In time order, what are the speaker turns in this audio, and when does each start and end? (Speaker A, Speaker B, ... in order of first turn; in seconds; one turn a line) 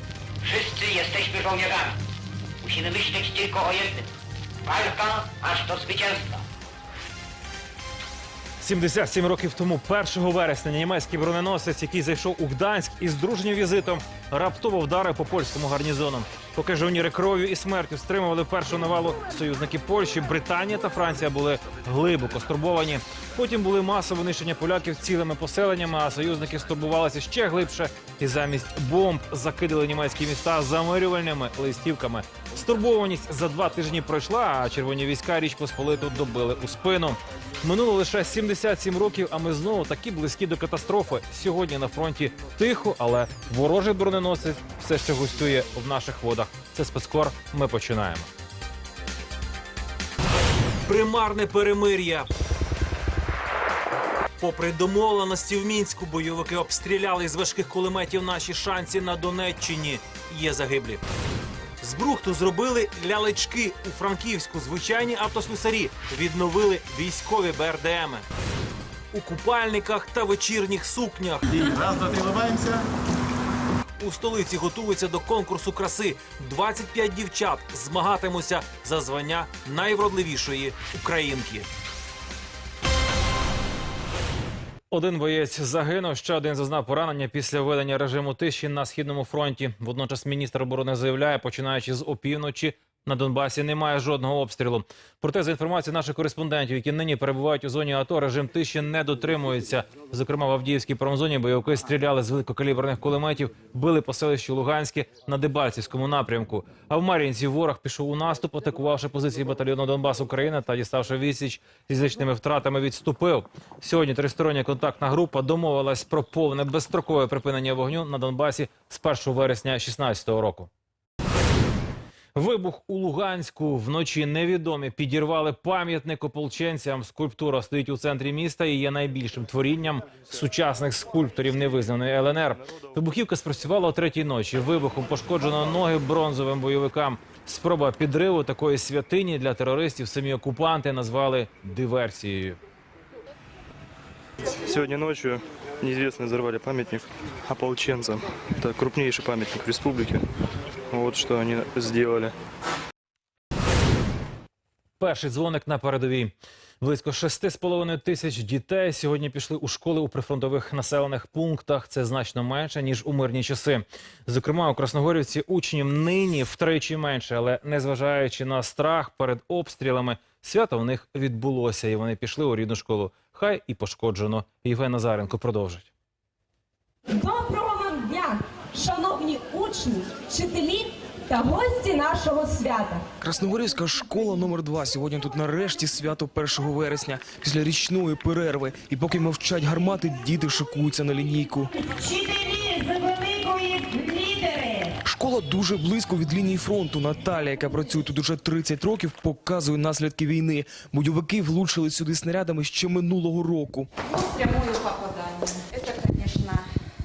Speaker A: 0.4-1.9
Speaker A: 2.6-4.0
Speaker A: 4.7-6.4
Speaker B: 8.6-48.3
Speaker B: 50.9-52.3
Speaker B: 54.4-61.0
Speaker B: 61.8-68.2
Speaker B: 69.1-71.9
Speaker B: 74.0-81.7
Speaker B: 84.9-120.7
Speaker B: 122.3-142.6
Speaker C: 144.6-150.2
Speaker C: 150.9-152.3
Speaker B: 155.0-175.9
Speaker D: 177.1-183.0
Speaker E: 183.2-191.7
Speaker D: 191.7-194.9
Speaker E: 195.1-203.9
Speaker F: 204.0-206.7